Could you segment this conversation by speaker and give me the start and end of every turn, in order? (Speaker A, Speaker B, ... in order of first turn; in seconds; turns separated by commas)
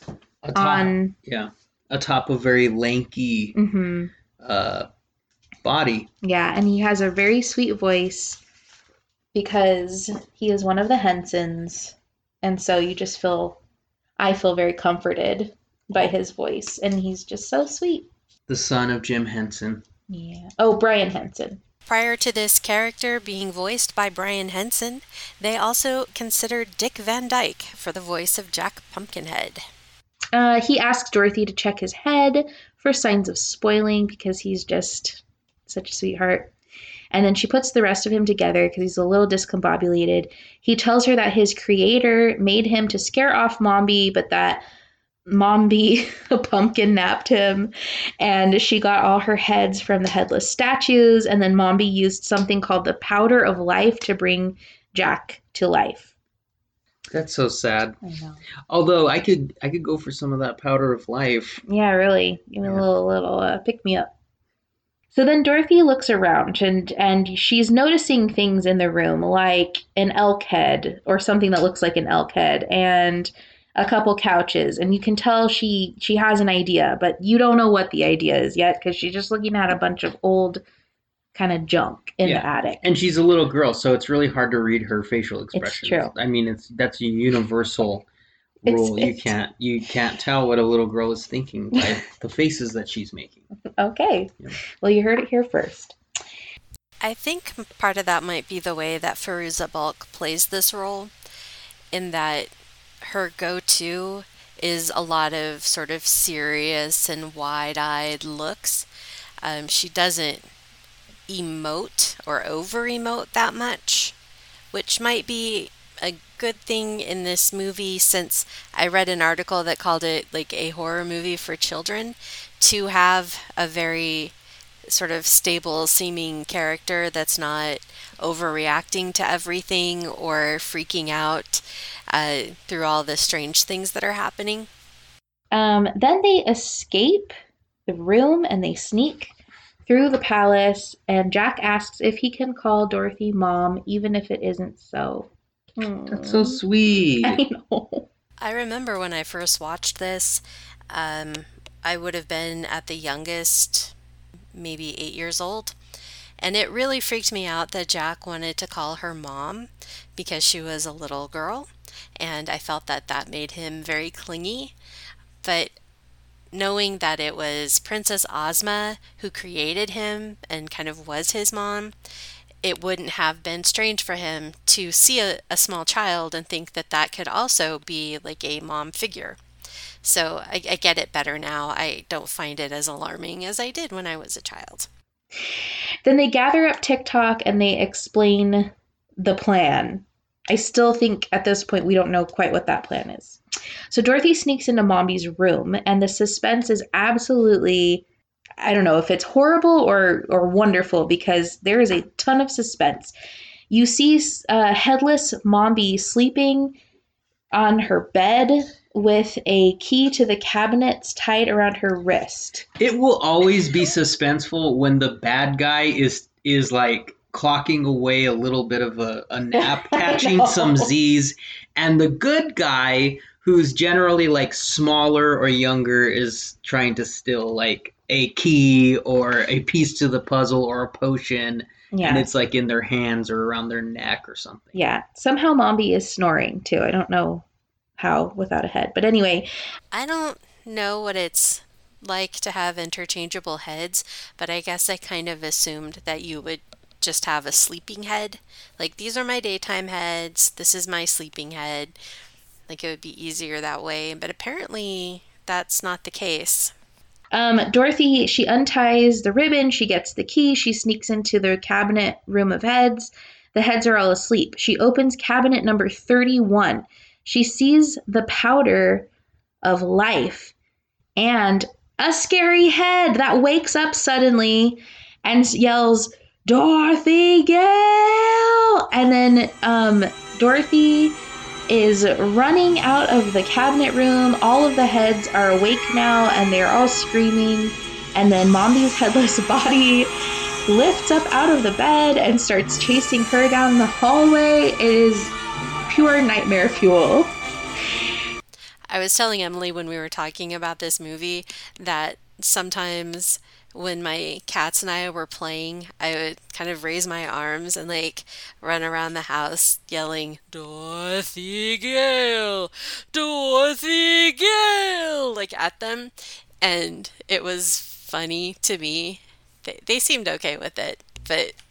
Speaker A: 0.4-3.6, Speaker B: 0.6-1.1, Speaker B: 3.5-4.1, Speaker A: 4.4-4.9, Speaker A: 5.6-6.1, Speaker B: 6.2-8.4, Speaker B: 9.3-13.6, Speaker B: 14.2-18.1, Speaker A: 18.5-19.8, Speaker B: 20.1-21.6, Speaker C: 21.9-29.6, Speaker B: 30.3-36.5, Speaker B: 37.1-44.6, Speaker B: 45.3-56.1, Speaker A: 57.1-58.0, Speaker B: 58.0-58.4, Speaker A: 58.7-61.6, Speaker B: 61.7-64.1, Speaker B: 65.1-80.6, Speaker B: 81.3-82.8, Speaker A: 82.2-88.1, Speaker B: 85.5-86.1, Speaker A: 88.6-93.4, Speaker B: 88.7-89.3, Speaker B: 93.8-96.0, Speaker C: 97.0-101.1, Speaker C: 101.9-102.5, Speaker C: 103.0-108.9, Speaker C: 109.4-110.5, Speaker C: 111.3-114.1, Speaker C: 114.7-124.3, Speaker C: 124.9-134.7, Speaker B: 135.5-137.3, Speaker B: 137.9-139.3, Speaker B: 139.9-146.6, Speaker A: 146.1-147.4, Speaker B: 147.2-148.1, Speaker C: 148.4-153.9, Speaker C: 154.5-155.8, Speaker C: 156.4-164.7, Speaker C: 165.4-165.7, Speaker C: 166.5-171.9, Speaker C: 172.6-179.4, Speaker C: 180.0-184.9, Speaker B: 186.1-198.0, Speaker B: 198.6-203.1, Speaker B: 203.7-206.8, Speaker B: 207.5-212.7, Speaker A: 212.8-234.8, Speaker B: 219.6-220.9, Speaker B: 231.9-232.3, Speaker B: 234.8-237.4, Speaker B: 238.0-239.5, Speaker C: 239.9-252.0, Speaker C: 252.7-256.7, Speaker B: 257.3-269.1, Speaker B: 269.6-270.5, Speaker B: 271.2-281.2, Speaker B: 281.7-290.1, Speaker B: 290.7-295.4, Speaker B: 295.9-297.3, Speaker C: 298.9-321.6